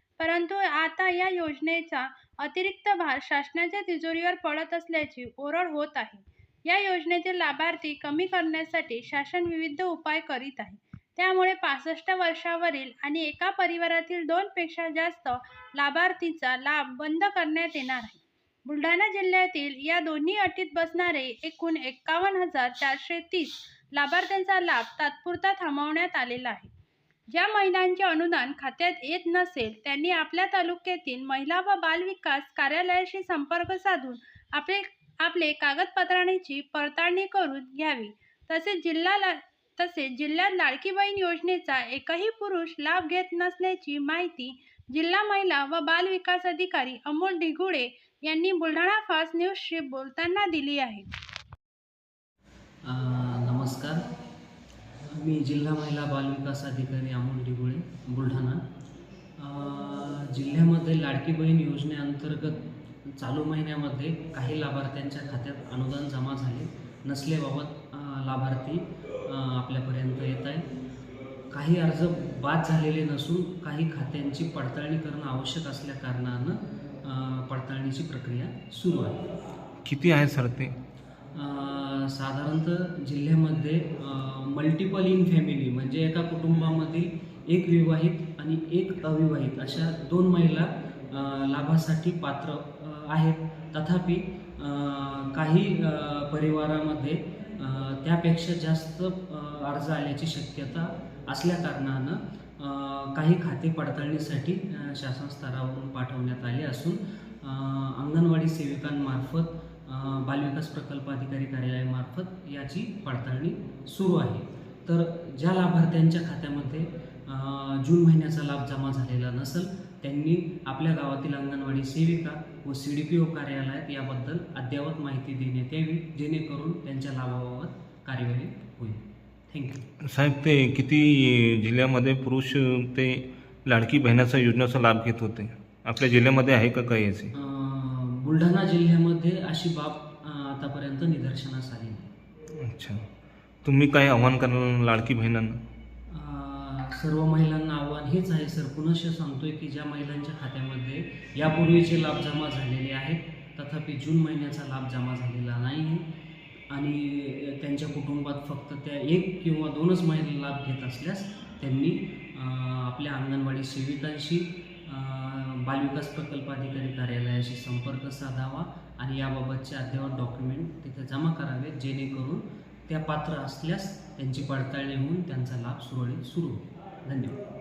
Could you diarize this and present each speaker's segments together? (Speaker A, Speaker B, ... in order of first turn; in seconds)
Speaker A: 0.2-26.7, 27.3-51.1
Speaker B: 52.9-54.0, 55.1-58.6, 59.4-70.7, 71.5-79.2, 81.3-129.9, 137.3-142.1, 146.1-156.1, 156.7-177.4
Speaker C: 79.8-80.7, 130.1-137.3, 142.7-143.0, 143.7-145.6